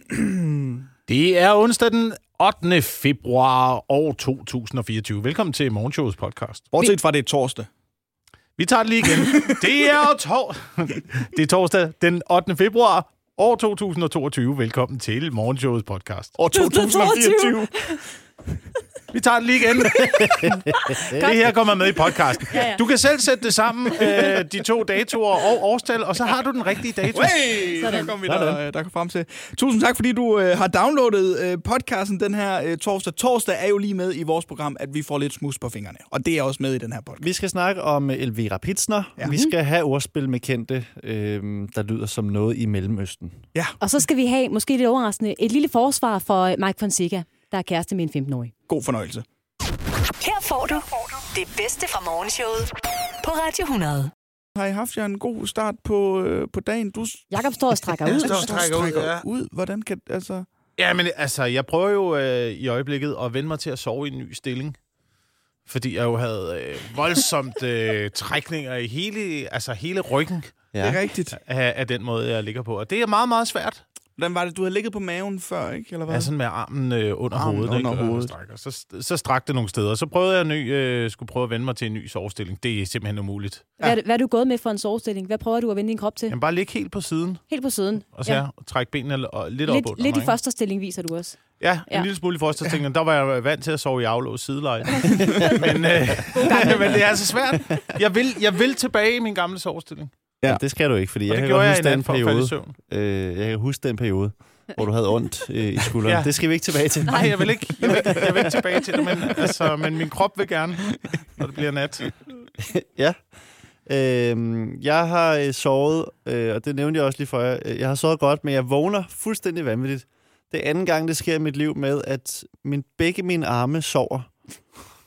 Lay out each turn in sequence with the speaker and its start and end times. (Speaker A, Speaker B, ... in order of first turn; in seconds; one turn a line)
Speaker A: 0.1-0.8
Speaker B: 1.1-6.7
Speaker A: 6.7-7.7
Speaker B: 8.6-16.4
Speaker A: 9.1-9.8
Speaker A: 16.4-17.8
Speaker C: 16.5-18.0
Speaker B: 19.1-27.6
Speaker D: 19.9-21.4
Speaker C: 20.7-21.4
Speaker C: 22.5-22.8
Speaker A: 27.1-37.2
Speaker C: 27.8-28.1
Speaker D: 28.2-28.6
Speaker D: 37.2-43.4
Speaker C: 39.3-39.5
Speaker C: 43.8-48.5
Speaker A: 48.7-49.2
Speaker E: 50.2-54.1
Speaker A: 54.5-57.3
Speaker C: 57.3-58.6
Speaker A: 58.0-60.5
Speaker B: 58.1-59.2
Speaker B: 60.8-64.8
Speaker B: 65.7-70.6
Speaker A: 70.8-71.4
Speaker B: 71.3-73.8
Speaker A: 74.2-76.3
Speaker B: 76.1-83.7
Speaker A: 77.3-78.3
Speaker C: 83.8-86.4
Speaker B: 86.3-87.4
Speaker C: 87.5-88.5
Speaker B: 88.2-90.3
Speaker C: 89.7-92.1
Speaker B: 91.6-100.1
Speaker A: 95.1-95.4
Speaker C: 95.3-95.7
Speaker C: 96.3-97.1
Speaker D: 100.5-108.5
Speaker B: 101.3-102.8
Speaker B: 106.1-106.3
Speaker B: 107.0-112.2
Speaker D: 112.6-113.2
Speaker D: 113.9-124.3